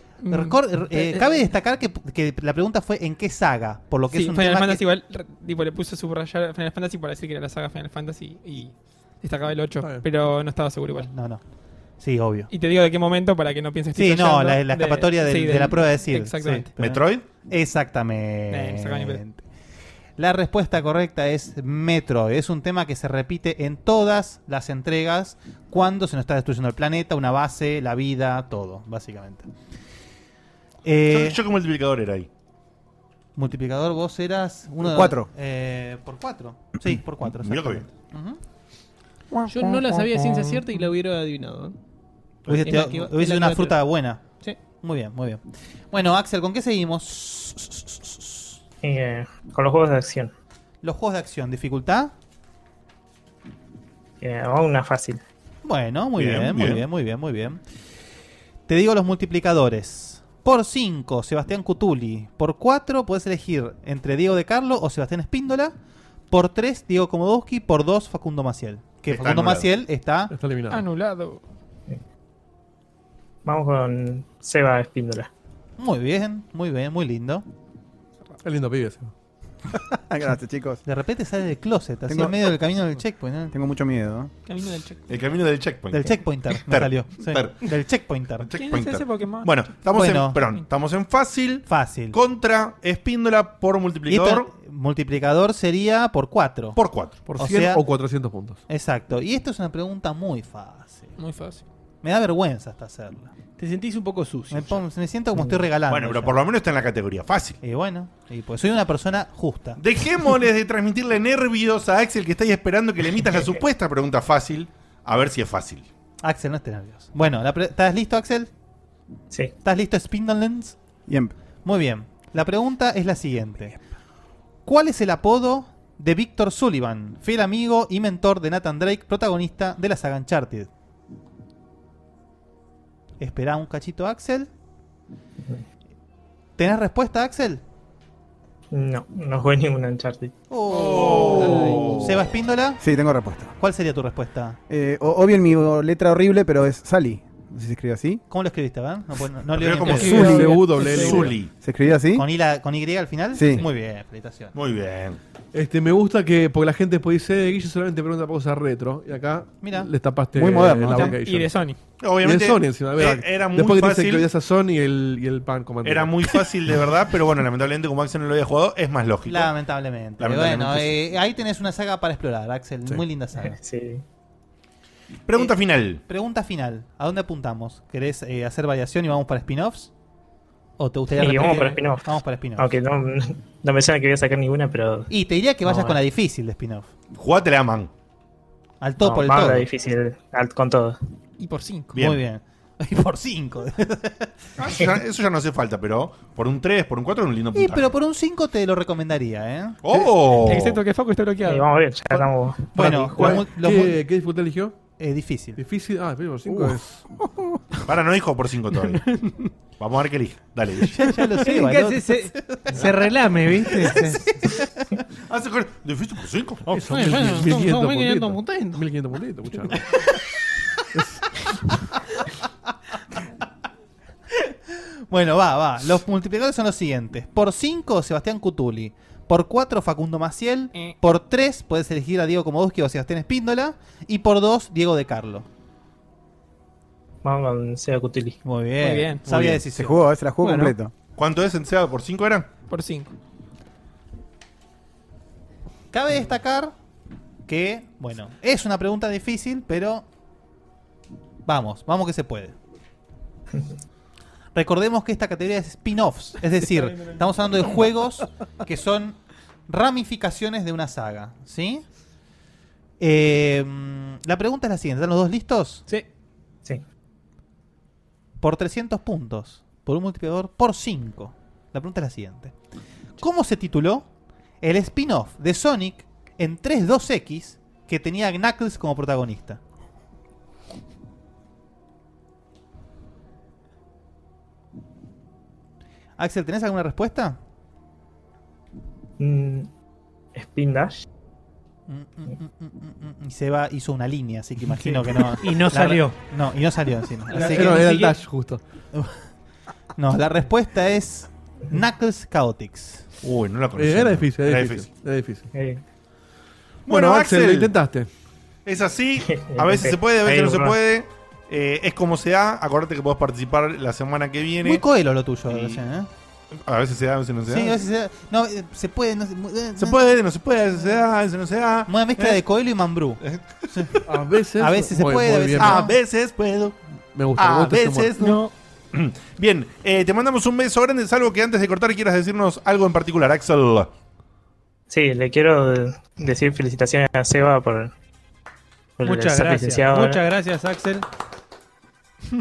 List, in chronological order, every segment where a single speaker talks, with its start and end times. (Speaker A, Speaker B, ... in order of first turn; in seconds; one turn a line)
Speaker A: 0.2-1.2
Speaker B: 0.3-4.8
Speaker A: 4.1-11.1
Speaker C: 9.8-10.1
Speaker B: 11.0-11.4
Speaker B: 12.0-12.5
Speaker A: 12.5-16.7
Speaker B: 13.9-19.4
Speaker D: 16.8-17.2
Speaker A: 18.5-19.2
Speaker B: 20.2-29.5
Speaker B: 30.8-31.4
Speaker D: 31.1-32.3
Speaker B: 33.4-38.4
Speaker E: 34.8-35.3
Speaker D: 37.3-37.9
Speaker E: 39.3-39.6
Speaker F: 39.5-41.8
Speaker A: 40.4-40.8
Speaker B: 42.5-44.2
Speaker F: 42.6-43.8
Speaker B: 44.7-48.6
Speaker G: 48.8-50.3
Speaker B: 50.8-52.1
Speaker G: 54.2-55.2
Speaker B: 55.6-57.6
Speaker D: 56.2-56.9
Speaker B: 58.7-65.7
Speaker B: 66.3-70.3
Speaker D: 69.0-69.7
Speaker C: 70.3-70.8
Speaker A: 70.7-71.4
Speaker G: 73.4-75.3
Speaker B: 75.8-77.4
Speaker C: 78.4-79.1
Speaker E: 79.9-80.8
Speaker B: 80.8-83.5
Speaker E: 82.1-82.5
Speaker E: 83.5-84.3
Speaker A: 84.5-85.0
Speaker D: 85.1-87.7
Speaker B: 85.9-88.5
Speaker D: 88.4-94.5
Speaker A: 88.6-89.8
Speaker B: 89.9-90.4
Speaker B: 91.7-92.2
Speaker B: 94.1-97.9
Speaker D: 96.7-97.2
Speaker C: 97.2-98.6
Speaker B: 98.7-101.1
Speaker A: 101.2-101.6
Speaker B: 102.0-103.3
Speaker F: 103.6-104.8
Speaker B: 104.5-106.4
Speaker D: 105.9-107.6
Speaker B: 107.6-109.8
Speaker D: 109.8-115.9
Speaker B: 116.2-118.5
Speaker B: 119.6-120.8
Speaker E: 121.1-121.3
Speaker B: 121.6-123.8
Speaker B: 124.6-130.7
Speaker B: 133.2-134.5
Speaker B: 136.6-137.6
Speaker G: 138.7-140.3
Speaker B: 140.5-142.8
Speaker D: 140.7-142.0
Speaker E: 141.4-142.2
Speaker E: 142.8-143.5
Speaker B: 143.6-144.6
Speaker E: 144.7-148.2
Speaker B: 148.3-150.4
Speaker D: 149.5-151.5
Speaker A: 149.8-151.3
Speaker C: 150.0-151.3
Speaker E: 150.1-152.2
Speaker B: 152.1-154.5
Speaker E: 153.3-153.6
Speaker D: 154.5-155.2
Speaker C: 155.5-161.6
Speaker B: 159.6-159.9
Speaker E: 160.3-161.2
Speaker A: 160.9-161.8
Speaker D: 162.0-164.3
Speaker C: 162.2-166.2
Speaker D: 165.8-169.5
Speaker B: 169.3-173.6
Speaker D: 170.2-171.0
Speaker G: 173.4-174.0
Speaker D: 175.3-176.0
Speaker B: 175.3-179.9
Speaker B: 180.8-182.7
Speaker G: 181.2-185.1
Speaker B: 185.1-186.9
Speaker G: 185.7-186.0
Speaker D: 187.1-187.9
Speaker B: 188.8-189.7
Speaker G: 189.0-191.0
Speaker A: 191.4-191.9
Speaker D: 191.9-192.2
Speaker B: 191.9-194.3
Speaker D: 194.6-197.9
Speaker B: 197.5-199.8
Speaker D: 199.8-200.8
Speaker A: 200.4-201.7
Speaker G: 201.4-203.2
Speaker B: 202.6-204.0
Speaker C: 202.8-204.8
Speaker F: 202.8-203.3
Speaker B: 205.0-205.6
Speaker C: 205.6-207.0
Speaker D: 207.9-209.0
Speaker A: 208.9-209.4
Speaker D: 209.8-210.9
Speaker B: 210.9-212.8
Speaker F: 211.4-214.4
Speaker B: 213.9-215.0
Speaker D: 215.3-216.8
Speaker C: 216.7-219.9
Speaker F: 216.9-218.8
Speaker C: 220.9-221.4
Speaker B: 225.1-235.4
Speaker G: 237.2-238.4
Speaker B: 238.4-240.0
Speaker A: 238.8-239.2
Speaker E: 239.7-240.9
Speaker F: 240.4-240.8
Speaker D: 241.2-242.5
Speaker A: 242.7-243.1
Speaker B: 245.9-246.7
Speaker B: 247.5-250.1
Speaker B: 251.4-252.5
Speaker B: 254.5-261.8
Speaker B: 263.0-265.8
Speaker B: 268.4-272.5
Speaker B: 273.2-274.1
Speaker B: 274.6-279.6
Speaker B: 286.2-287.4
Speaker G: 289.2-289.7
Speaker G: 290.3-291.0
Speaker B: 291.9-297.9
Speaker F: 294.8-296.2
Speaker F: 297.3-298.2
Speaker C: 297.3-298.6
Speaker B: 300.0-303.0
Speaker D: 303.2-304.9
Speaker C: 303.7-305.5
Speaker G: 305.5-305.8
Speaker D: 306.9-307.7
Speaker C: 306.9-308.1
Speaker D: 308.6-314.8
Speaker G: 309.2-310.8
Speaker B: 314.6-316.1
Speaker D: 315.5-315.8
Speaker D: 316.5-317.8
Speaker B: 317.5-320.0
Speaker D: 319.8-322.4
Speaker B: 321.9-323.2
Speaker D: 323.2-324.0
Speaker C: 324.1-325.8
Speaker B: 324.6-326.0
Speaker D: 325.6-326.8
Speaker C: 327.1-328.1
Speaker D: 327.4-333.9
Speaker A: 328.2-328.5
Speaker G: 334.9-337.9
Speaker G: 339.0-340.2
Speaker F: 339.0-341.0